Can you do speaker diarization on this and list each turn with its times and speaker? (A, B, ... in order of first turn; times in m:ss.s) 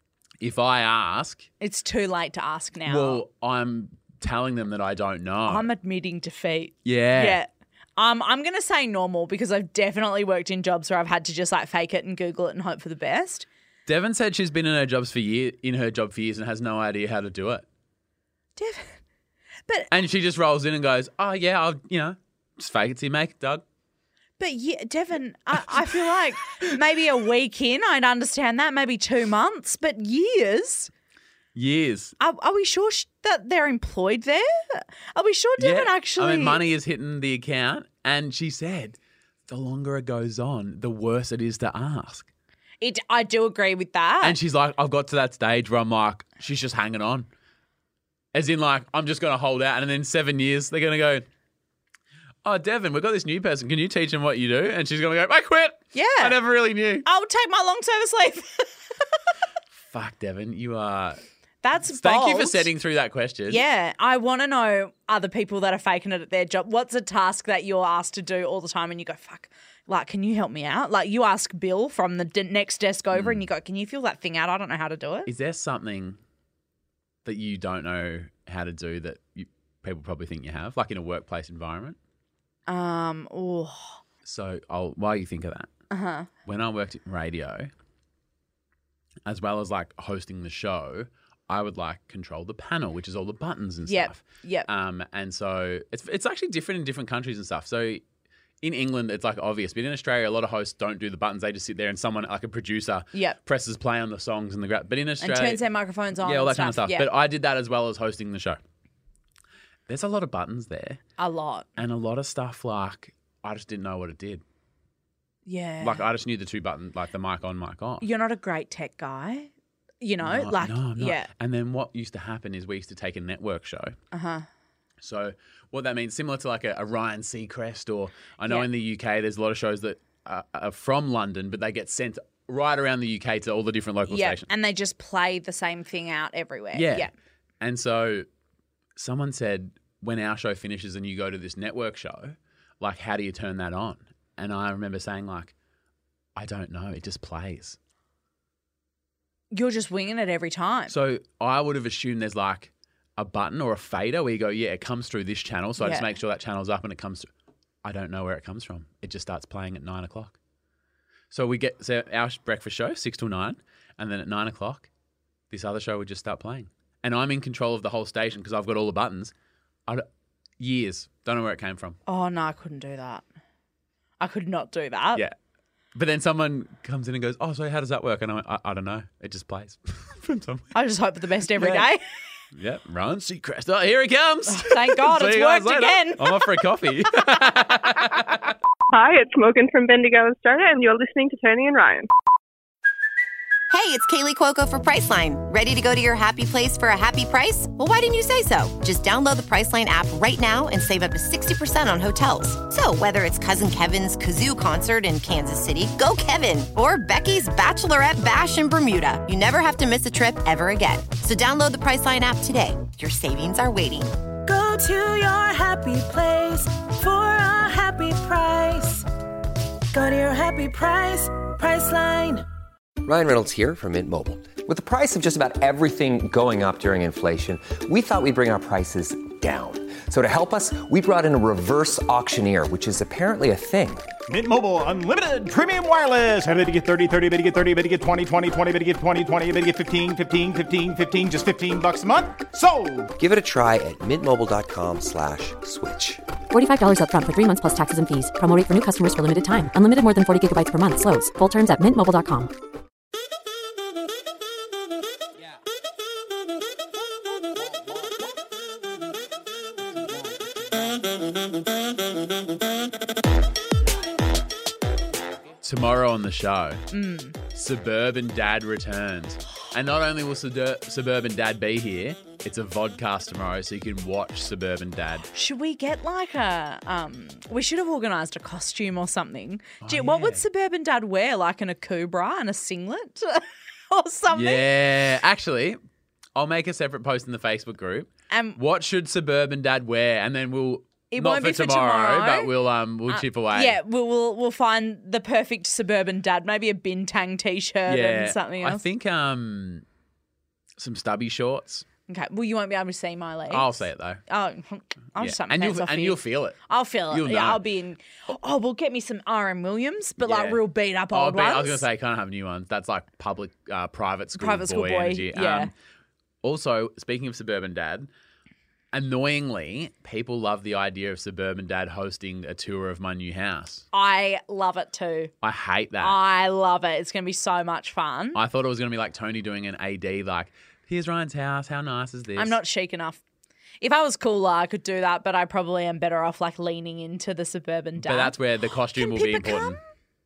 0:00.4-0:01.5 A
0:01.6-0:03.2 B
0:02.9-0:05.7 A
0:05.5-0:13.5 B
0:06.8-0:07.4 A
0:13.9-0:17.6 A
0:18.6-0:19.0 B
0:19.9-0:23.6 A
0:24.4-0:30.9 B
0:31.5-0:32.1 A
0:32.2-0:36.6 B
0:35.6-0:39.0 A
0:39.5-0:42.3 A
0:42.8-0:44.4 B
0:44.2-0:47.3 A
0:48.3-0:51.2 A
0:52.4-0:57.0 A
0:55.9-0:56.4 B
0:57.0-0:58.8 B
0:59.9-1:01.2 A
1:01.6-1:02.7 B
1:01.9-1:03.6 A
1:03.5-1:15.3 B
1:13.1-1:13.4 A
1:15.2-1:16.2 A
1:17.2-1:22.0 A
1:22.7-1:24.0 B
1:24.2-1:25.7 A
1:25.9-1:26.3 B
1:26.4-1:27.7 A
1:29.2-1:38.0 A
1:33.8-1:34.7 B
1:38.6-1:45.6 A
1:45.2-1:47.1 B
1:46.2-1:48.6 A
1:49.9-1:51.0 A
1:51.2-1:51.7 B
1:51.8-1:54.4 A
1:55.4-1:56.0 B
1:55.8-1:58.0 A
1:58.0-2:01.3 B
2:00.2-2:04.0 A
2:04.1-2:04.4 B
2:05.0-2:14.5 A
2:14.1-2:17.1 B
2:16.7-2:17.1 A
2:17.6-2:18.2 A
2:19.0-2:25.5 A
2:26.4-2:27.8 A
2:29.5-2:30.9 B
2:30.9-2:37.3 A
2:35.8-2:36.1 B
2:37.8-2:40.4 A
2:41.3-2:44.9 A
2:45.5-2:49.3 A
2:50.6-2:52.0 A
2:52.1-2:53.2 B
2:54.2-2:55.2 B
2:55.9-3:00.7 A
3:00.7-3:02.0 B
3:01.6-3:01.9 A
3:02.5-3:08.5 A
3:04.5-3:06.6 B
3:08.9-3:12.1 C
3:13.7-3:34.2 D
3:34.4-3:39.1 E
3:39.9-3:42.4 E
3:43.0-3:54.1 F
3:54.3-4:03.1 G
4:03.2-4:06.2 F
4:06.5-4:12.5 H
4:25.6-4:26.8 A
4:26.9-4:27.4 B
4:27.5-4:35.3 A
4:35.3-4:44.6 B
4:39.8-4:40.4 A
4:44.3-4:45.8 A
4:46.4-4:53.8 A
4:48.3-4:48.6 B
4:51.1-4:52.5 B
4:53.1-4:58.8 B
4:57.9-4:59.8 A
5:00.8-5:01.8 A
5:02.1-5:11.8 B
5:03.5-5:04.2 A
5:05.2-5:06.6 A
5:07.1-5:07.6 A
5:10.2-5:15.7 A
5:14.4-5:15.7 B
5:16.4-5:18.1 A
5:18.9-5:23.8 A
5:23.9-5:25.3 B
5:25.4-5:26.2 A
5:26.0-5:28.4 B
5:28.3-5:32.6 A
5:32.4-5:33.2 B
5:33.8-5:38.4 B
5:38.0-5:39.8 A
5:38.9-5:39.8 B